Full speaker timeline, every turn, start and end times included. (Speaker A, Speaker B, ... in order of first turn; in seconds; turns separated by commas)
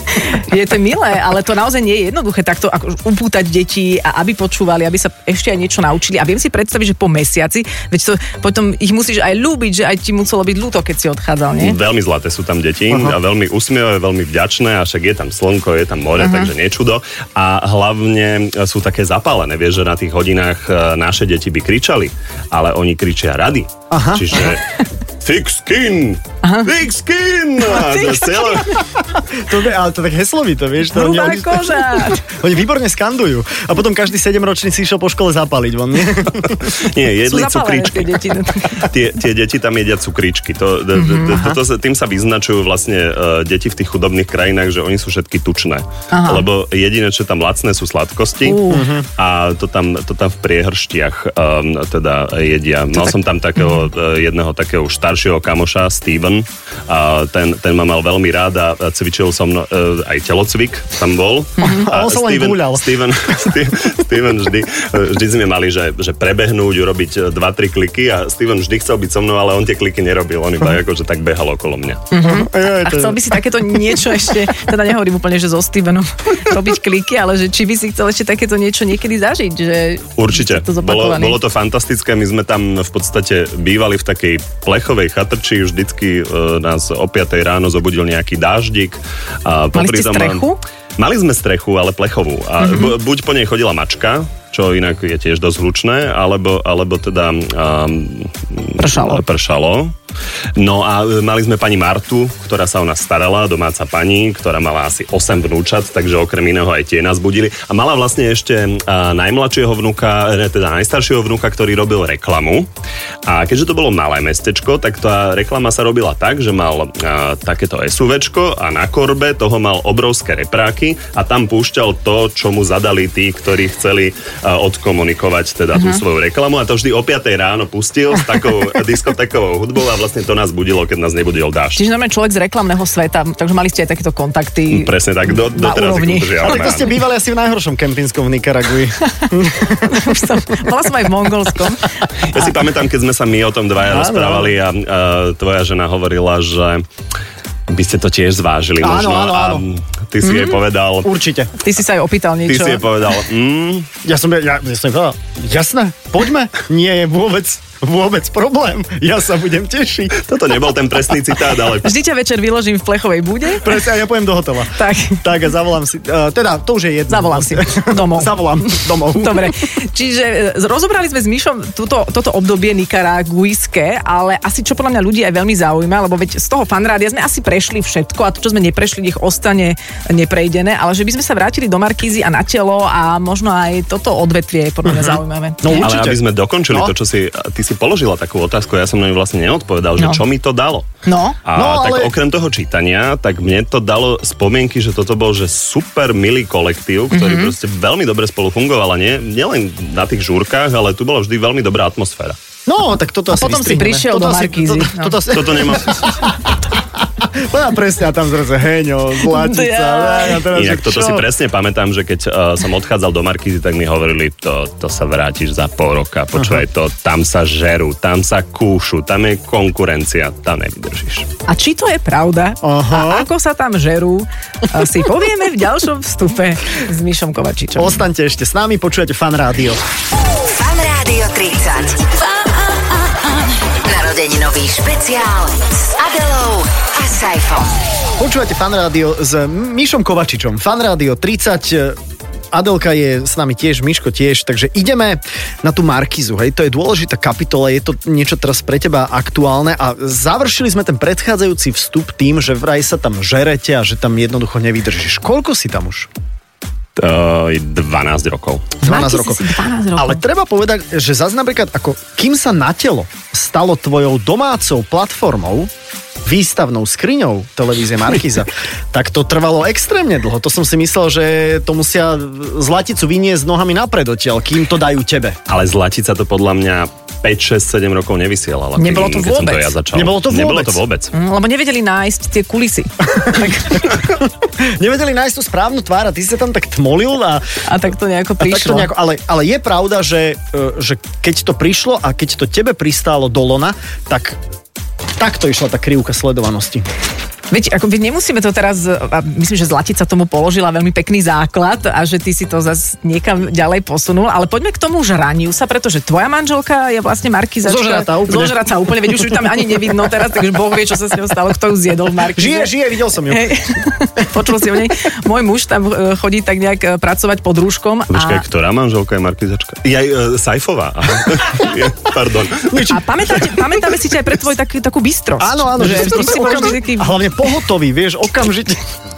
Speaker A: 0.2-11.8, Speaker B: 11.6-28.8, Speaker A: 16.2-16.5, Speaker C: 23.9-24.4, Speaker A: 26.4-26.7, Speaker A: 27.6-28.8, Speaker C: 29.3-36.7, Speaker A: 30.8-32.3, Speaker B: 36.6-48.6, Speaker A: 37.2-38.9, Speaker A: 41.0-41.5, Speaker A: 46.1-46.5, Speaker A: 48.4-48.9, Speaker C: 48.7-49.1, Speaker B: 49.2-72.1, Speaker A: 53.0-53.9, Speaker A: 61.6-61.9, Speaker C: 61.6-63.7, Speaker A: 72.1-81.4, Speaker C: 72.2-73.4, Speaker B: 80.2-99.9, Speaker A: 89.8-90.6, Speaker A: 92.6-92.9, Speaker A: 98.8-99.2, Speaker B: 100.6-112.7, Speaker B: 113.3-131.8, Speaker A: 125.8-126.0, Speaker A: 131.8-136.8, Speaker B: 134.7-136.9, Speaker C: 136.4-140.1, Speaker A: 139.2-142.5, Speaker B: 142.2-146.9, Speaker C: 143.8-144.6, Speaker B: 147.7-151.1, Speaker C: 148.8-149.6, Speaker A: 150.2-150.6, Speaker C: 151.0-151.5, Speaker A: 151.6-152.8, Speaker B: 152.5-153.9, Speaker C: 154.0-160.2, Speaker B: 160.2-161.9, Speaker A: 161.8-163.8, Speaker C: 163.6-169.6, Speaker A: 164.7-165.2, Speaker A: 167.1-185.9, Speaker C: 184.8-186.9, Speaker B: 185.7-190.9, Speaker A: 191.1-191.4, Speaker B: 191.4-202.4, Speaker C: 191.5-192.1, Speaker A: 197.1-197.5, Speaker C: 202.7-206.6, Speaker A: 203.3-205.2, Speaker B: 205.3-206.2, Speaker C: 207.2-211.3, Speaker A: 209.2-210.5, Speaker B: 210.5-221.3, Speaker C: 216.4-216.6, Speaker A: 221.5-228.0, Speaker C: 222.6-223.3, Speaker C: 227.8-229.8, Speaker D: 230.4-232.1, Speaker D: 233.8-237.8, Speaker C: 238.2-242.0, Speaker C: 242.5-256.1, Speaker B: 257.0-258.8, Speaker A: 258.8-260.2, Speaker C: 258.8-265.7, Speaker C: 266.2-275.4, Speaker B: 275.5-281.1, Speaker A: 278.8-279.7, Speaker C: 279.9-280.8, Speaker A: 281.1-284.0, Speaker C: 284.1-287.4, Speaker A: 287.7-288.9, Speaker C: 288.4-294.4, Speaker C: 295.2-296.9, Speaker A: 297.5-312.7, Speaker C: 307.6-309.6, Speaker C: 312.3-313.6, Speaker A: 313.3-318.4, Speaker B: 318.1-322.9, Speaker C: 322.6-323.3, Speaker A: 322.9-327.2, Speaker C: 325.4-328.8